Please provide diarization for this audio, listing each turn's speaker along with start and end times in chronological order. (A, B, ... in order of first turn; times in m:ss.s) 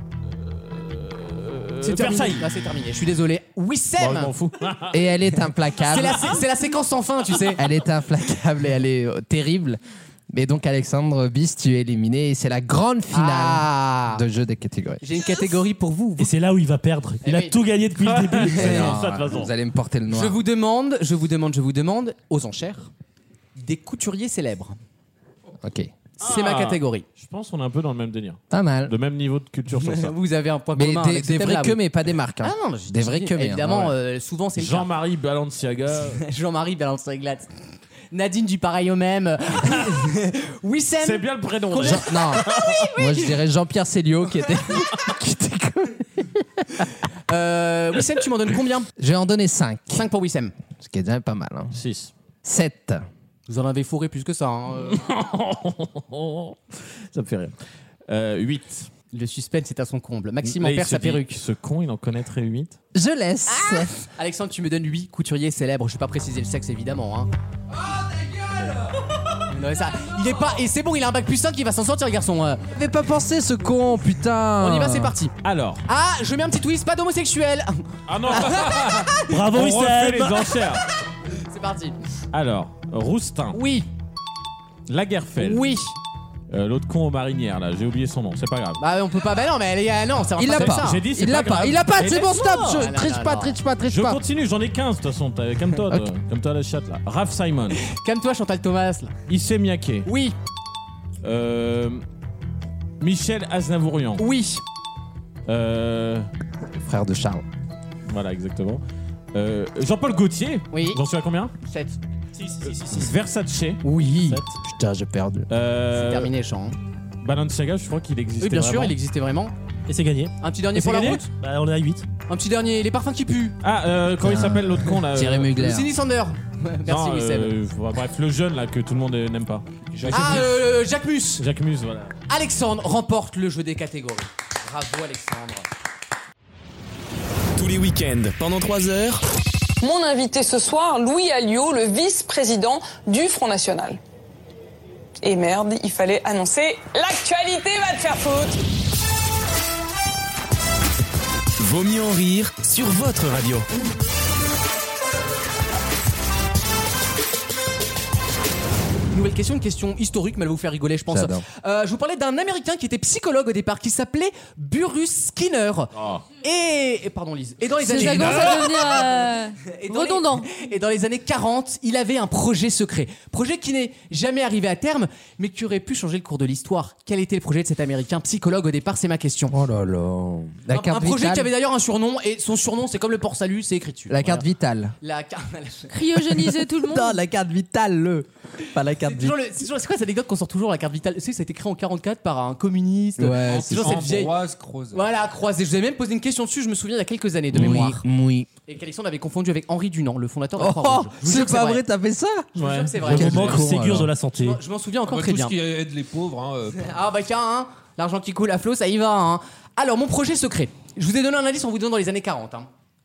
0:00.4-0:02.5 A
0:01.8-0:04.3 B
0:04.0-0:05.1 A
0:04.9-0:06.4 C
0:05.9-0:07.6 B
0:07.6-0:09.8 C
0:10.3-0:15.0 C
0:13.1-0:14.2 B
0:15.0-0:16.3 B
0:16.2-0:19.0 D
0:17.2-0:17.6 B
0:18.0-0:19.5 A
0:18.5-0:20.4 C
0:20.1-0:22.9 B
0:23.6-0:24.8 B
0:25.6-0:25.9 C
0:26.2-0:27.0 B
0:26.2-0:30.1 A
0:28.5-0:28.9 C
0:29.7-0:31.8 B
0:30.8-0:34.0 C
0:32.4-0:34.9 B
0:34.6-0:36.2 A
0:36.2-0:37.5 B
0:38.1-0:43.0 B
0:41.0-0:42.9 A
0:41.8-0:46.8 C
0:47.3-0:48.9 B
0:49.0-0:50.1 C
0:49.9-0:50.5 B
0:50.8-0:51.7 C
0:51.7-0:52.1 A
0:52.4-0:53.0 C
0:53.5-0:55.0 B
0:54.9-0:57.5 A
0:58.1-0:58.9 A
0:59.1-1:01.4 B
1:00.4-1:02.8 A
1:02.9-1:03.9 C
1:03.5-1:07.3 B
1:09.5-1:12.6 B
1:12.7-1:15.1 C
1:14.6-1:15.3 B
1:15.4-1:15.8 A
1:15.8-1:19.3 B
1:18.1-1:20.9 A
1:18.6-1:19.1 E
1:19.2-1:20.6 D
1:21.3-1:22.0 B
1:22.3-1:23.6 A
1:23.5-1:23.9 B
1:24.9-1:25.6 A
1:25.4-1:26.0 B
1:26.5-1:28.8 A
1:28.8-1:31.0 B
1:30.4-1:34.2 C
1:30.5-1:32.9 A
1:32.6-1:33.6 B
1:33.8-1:37.8 A
1:37.8-1:39.1 B
1:39.3-1:40.1 A
1:40.1-1:40.4 B
1:41.2-1:42.0 A
1:43.0-1:44.2 A
1:44.2-1:44.6 B
1:45.5-1:46.3 A
1:46.8-1:47.4 C
1:48.1-1:48.8 A
1:49.3-1:51.5 A
1:50.7-1:51.0 B
1:51.6-1:52.0 B
1:52.4-1:53.1 D
1:52.6-1:53.8 A
1:53.8-1:54.4 B
1:54.6-1:55.5 C
1:55.5-1:56.3 A
1:55.9-1:56.8 B
1:57.2-1:59.0 A
1:58.4-1:59.5 B
1:59.9-2:02.1 D
2:00.4-2:01.3 B
2:00.9-2:01.2 A
2:02.3-2:03.6 B
2:03.6-2:05.5 A
2:04.2-2:05.9 C
2:05.6-2:07.5 B
2:06.9-2:09.7 A
2:09.9-2:10.5 E
2:10.1-2:11.4 B
2:11.4-2:12.2 A
2:12.3-2:15.7 B
2:17.6-2:19.2 F
2:19.8-2:24.0 G
2:25.2-2:28.6 G
2:31.6-2:33.7 F
2:39.1-2:59.6 B
2:41.1-2:41.4 C
2:46.0-2:46.2 A
2:47.8-2:50.5 H
2:59.5-3:01.5 C
3:00.7-3:04.4 B
3:04.1-3:05.0 C
3:05.0-3:06.0 B
3:05.9-3:07.2 H
3:06.8-3:09.4 C
3:09.0-3:14.4 B
3:13.2-3:14.1 C
3:13.4-3:15.1 E
3:14.9-3:18.0 B
3:17.5-3:18.5 C
3:18.7-3:21.8 B
3:20.6-3:22.5 C
3:22.5-3:23.6 B
3:22.6-3:23.0 A
3:23.0-3:24.1 C
3:23.1-3:24.6 D
3:24.3-3:25.6 B
3:25.1-3:26.9 E
3:26.8-3:32.7 B